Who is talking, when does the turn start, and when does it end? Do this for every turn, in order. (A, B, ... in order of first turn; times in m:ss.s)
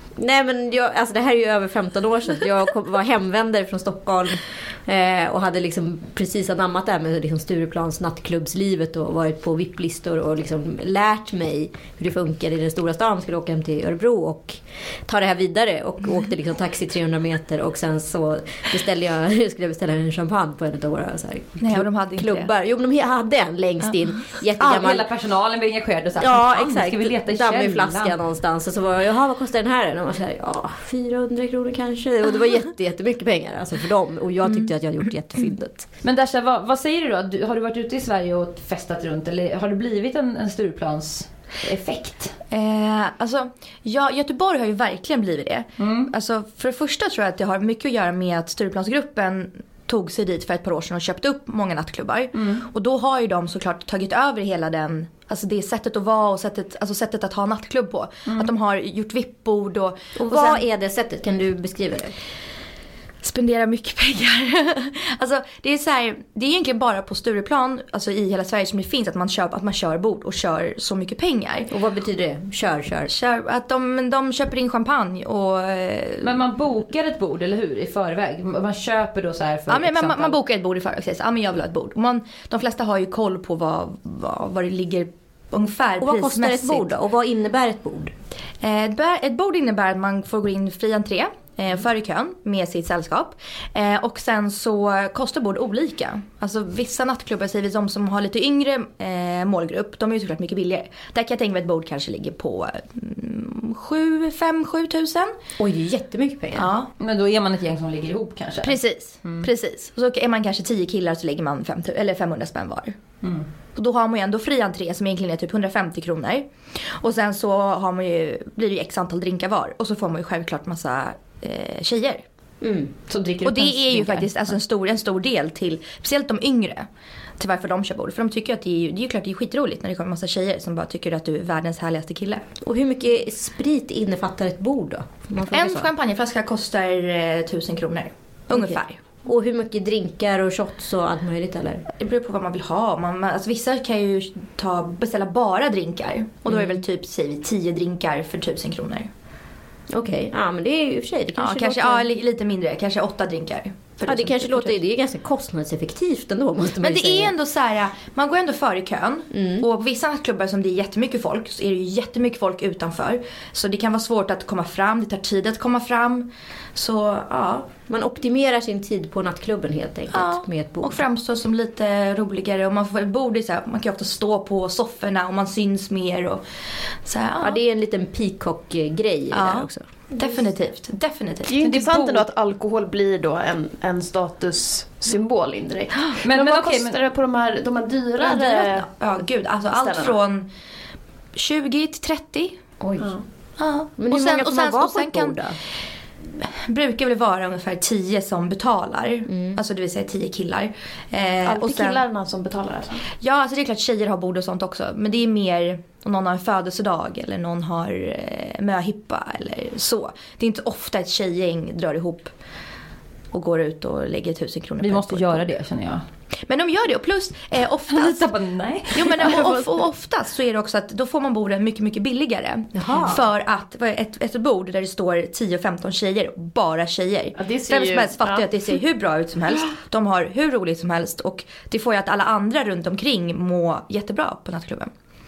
0:00.2-0:25.1 A
0:21.6-0:22.5 B
0:24.6-0:28.2 C
0:26.2-0:35.9 A
0:36.0-0:42.4 C
0:42.5-1:00.6 B
0:45.8-0:46.1 C
0:52.3-0:52.7 C
0:58.3-0:58.5 C
1:00.2-1:02.2 A
1:03.2-1:11.7 B
1:11.7-1:13.1 A
1:13.1-1:16.4 B
1:16.2-1:20.4 C
1:19.7-1:26.9 B
1:26.0-1:28.1 A
1:28.6-1:45.3 B
1:45.6-1:46.7 A
1:46.5-1:46.9 B
1:47.0-1:49.5 C
1:48.6-1:53.0 B
1:53.2-1:53.5 C
1:53.8-2:02.2 B
2:02.6-2:02.9 A
2:03.1-2:04.3 C
2:03.4-2:06.9 B
2:07.4-2:12.4 B
2:12.6-2:15.9 A
2:15.5-2:19.0 B
2:18.5-2:21.8 A
2:21.9-2:29.1 B
2:26.5-2:26.8 A
2:29.9-2:32.1 A
2:31.4-2:34.8 B
2:34.1-2:37.3 A
2:36.8-2:47.7 B
2:39.3-2:39.7 A
2:47.9-2:51.0 A
2:50.1-2:56.4 B
2:57.0-2:57.6 B
2:57.4-2:59.9 A
2:59.3-3:01.5 B
3:01.5-3:08.9 D
3:01.6-3:02.3 C
3:06.2-3:07.0 C
3:08.2-3:10.5 B
3:09.7-3:10.2 D
3:11.4-3:12.6 B
3:12.8-3:13.2 A
3:13.6-3:15.4 B
3:14.0-3:15.6 A
3:16.4-3:22.0 B
3:19.3-3:19.6 A
3:21.4-3:23.1 D
3:23.2-3:32.3 B
3:33.3-3:35.5 B
3:34.8-3:36.0 C
3:36.5-3:38.4 B
3:37.9-3:39.6 C
3:38.9-3:54.9 B
3:42.8-3:43.2 A
3:47.4-3:48.5 D